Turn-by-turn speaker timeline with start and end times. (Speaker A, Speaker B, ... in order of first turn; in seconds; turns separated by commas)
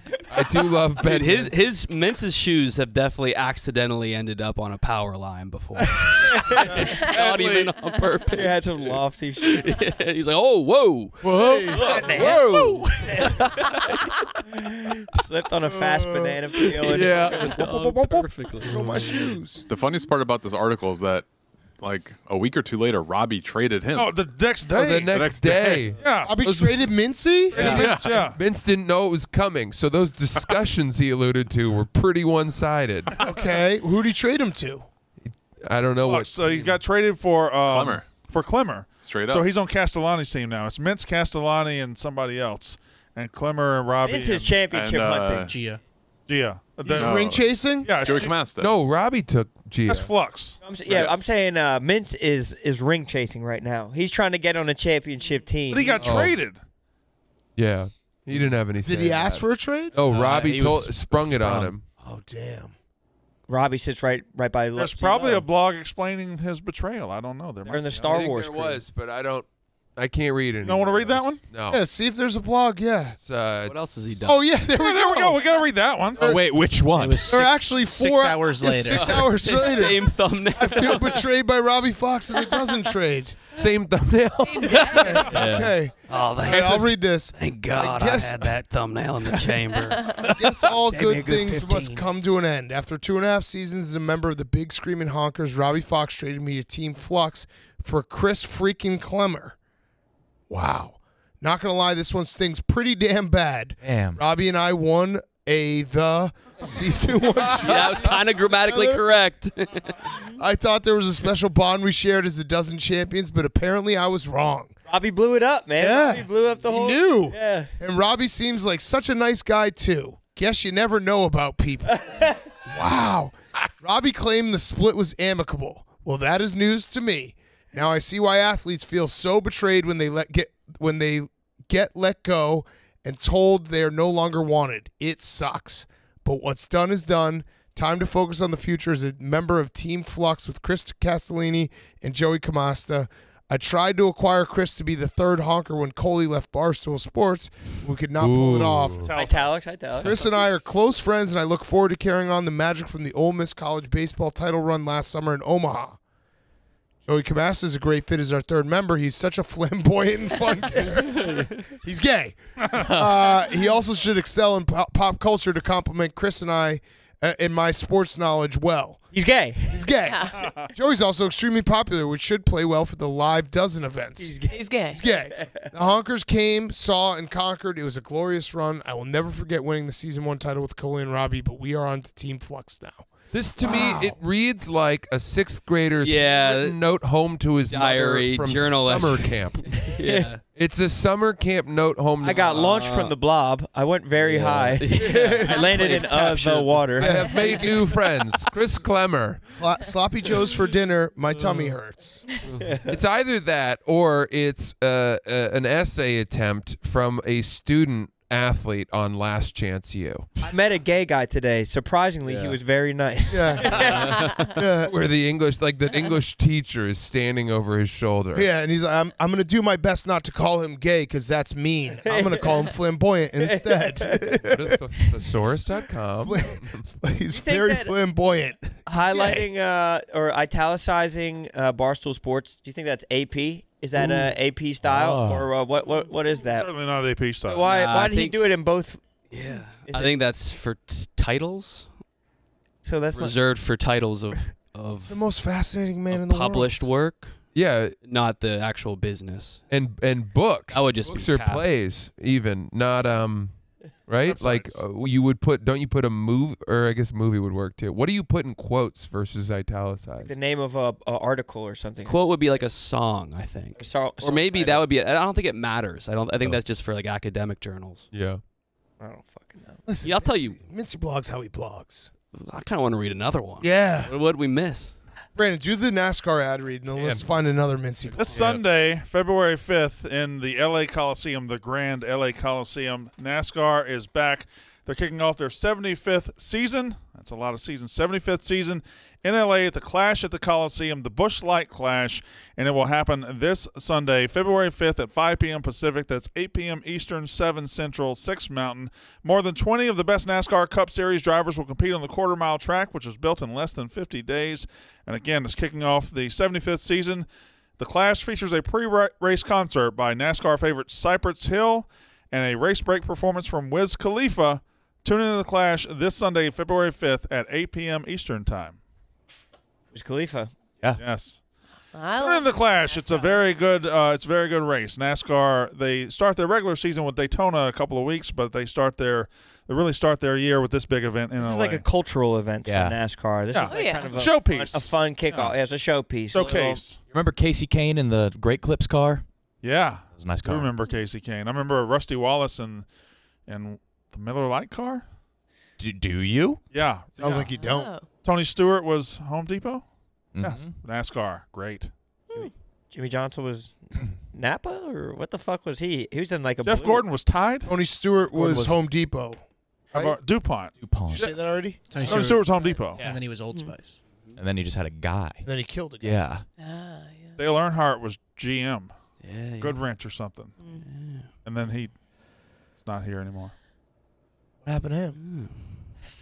Speaker A: 0.3-1.6, Speaker B: 1.0-14.3, Speaker C: 5.9-7.1, Speaker D: 7.1-7.7, Speaker C: 8.3-9.6, Speaker E: 11.2-12.4, Speaker C: 11.7-13.9, Speaker C: 14.5-18.5, Speaker E: 15.7-16.7, Speaker B: 16.8-19.4, Speaker A: 16.9-17.5, Speaker E: 18.6-19.6, Speaker F: 19.7-24.1, Speaker D: 23.9-26.4, Speaker E: 24.7-27.8, Speaker A: 24.8-33.1, Speaker F: 25.1-26.0, Speaker G: 27.5-27.9, Speaker D: 27.5-28.4, Speaker D: 33.1-33.4, Speaker E: 33.2-34.9, Speaker A: 35.2-36.7, Speaker D: 36.0-44.5, Speaker F: 37.6-38.1, Speaker F: 39.0-39.5, Speaker C: 44.0-45.5, Speaker F: 44.7-45.5, Speaker H: 45.5-45.8, Speaker D: 46.3-48.5, Speaker E: 46.8-48.0, Speaker F: 46.9-48.8, Speaker A: 48.5-50.1, Speaker D: 49.9-51.0, Speaker C: 50.6-56.1, Speaker F: 50.9-51.2, Speaker D: 55.7-56.6, Speaker A: 56.0-56.4, Speaker A: 57.5-61.9, Speaker E: 58.8-59.9, Speaker G: 59.9-61.8, Speaker E: 62.0-62.7, Speaker C: 63.5-65.5, Speaker D: 64.7-68.3, Speaker C: 67.7-68.8, Speaker A: 68.1-71.8, Speaker D: 70.6-71.4, Speaker E: 71.7-73.2, Speaker A: 73.2-74.1, Speaker B: 73.6-74.6, Speaker E: 74.2-76.7, Speaker D: 74.6-76.2, Speaker G: 76.1-77.8, Speaker H: 76.8-79.4, Speaker E: 77.2-83.4, Speaker B: 78.8-81.3, Speaker A: 83.5-84.8, Speaker I: 84.5-85.2, Speaker B: 84.6-90.8, Speaker E: 84.8-88.6, Speaker E: 90.2-99.6, Speaker C: 90.9-92.0, Speaker E: 100.5-109.1, Speaker G: 103.8-104.2, Speaker B: 107.5-110.1, Speaker E: 110.3-114.7, Speaker C: 114.8-117.7, Speaker E: 115.8-149.0, Speaker C: 121.9-122.4, Speaker A: 148.2-149.1, Speaker D: 149.0-150.3, Speaker C: 149.1-150.3, Speaker E: 150.0-156.0, Speaker E: 157.1-169.1, Speaker D: 162.6-162.9, Speaker C: 169.1-169.9, Speaker E: 169.7-174.3, Speaker I: 170.1-170.3, Speaker D: 170.4-170.7, Speaker C: 174.2-175.7, Speaker I: 174.5-175.0, Speaker E: 174.9-184.2, Speaker A: 183.3-192.6, Speaker B: 186.0-190.4, Speaker C: 189.8-190.3, Speaker C: 192.2-197.8, Speaker B: 192.3-193.1, Speaker B: 194.2-196.9, Speaker E: 194.9-195.7, Speaker A: 196.9-199.5, Speaker E: 196.9-198.6, Speaker I: 197.3-197.6, Speaker E: 199.4-202.3, Speaker B: 201.3-201.7, Speaker B: 202.4-202.8, Speaker C: 202.6-203.0, Speaker A: 202.9-210.3, Speaker C: 210.4-214.2, Speaker B: 212.2-212.6, Speaker E: 213.3-214.9, Speaker B: 213.7-214.6, Speaker I: 213.7-214.4, Speaker A: 214.8-218.5, Speaker E: 218.3-225.1, Speaker C: 222.0-222.7, Speaker C: 223.4-225.1, Speaker A: 224.5-226.8, Speaker E: 226.2-229.5, Speaker C: 227.3-228.0, Speaker C: 228.9-236.7, Speaker G: 233.9-235.5, Speaker D: 236.3-237.7, Speaker C: 237.4-239.3, Speaker B: 237.6-238.6, Speaker B: 239.3-242.0, Speaker C: 239.8-240.2, Speaker C: 242.8-243.5, Speaker B: 243.1-245.2, Speaker E: 245.0-246.9, Speaker B: 246.1-249.7, Speaker A: 247.5-248.0, Speaker A: 249.7-260.4, Speaker B: 250.7-251.7, Speaker D: 254.2-254.8, Speaker C: 260.2-262.2, Speaker B: 262.1-268.1, Speaker C: 263.7-264.9, Speaker A: 268.1-268.4, Speaker C: 269.0-269.9, Speaker E: 269.8-272.1, Speaker B: 270.0-270.6, Speaker B: 272.3-275.0, Speaker E: 273.6-274.1, Speaker E: 275.3-278.6, Speaker B: 278.1-278.5, Speaker D: 278.1-307.3, Speaker D: 307.8-318.8, Speaker C: 319.9-320.6, Speaker D: 321.0-321.4, Speaker I: 321.9-323.5, Speaker D: 322.2-331.8, Speaker C: 331.4-336.9, Speaker G: 332.6-333.1, Speaker D: 333.5-335.5, Speaker I: 333.6-334.2, Speaker D: 336.3-337.0, Speaker G: 337.1-339.3, Speaker D: 339.6-342.9, Speaker G: 340.1-340.7, Speaker D: 343.4-345.0, Speaker G: 345.8-346.6, Speaker D: 346.7-347.5, Speaker E: 347.2-347.9, Speaker I: 347.5-348.1, Speaker D: 348.1-351.9, Speaker G: 350.3-350.8, Speaker C: 352.3-357.1, Speaker D: 356.6-357.7, Speaker E: 357.6-360.2, Speaker G: 358.3-358.8, Speaker D: 359.9-360.7, Speaker G: 360.8-361.7, Speaker E: 361.1-362.4, Speaker H: 361.9-364.0, Speaker D: 361.9-363.0, Speaker G: 362.9-363.2, Speaker B: 364.1-364.4, Speaker G: 364.4-366.4, Speaker E: 365.4-366.3, Speaker I: 366.6-367.4, Speaker D: 367.4-370.6, Speaker B: 369.2-369.9, Speaker I: 370.6-370.9, Speaker B: 370.7-371.3, Speaker D: 371.4-373.5, Speaker E: 374.6-375.2, Speaker B: 375.1-376.0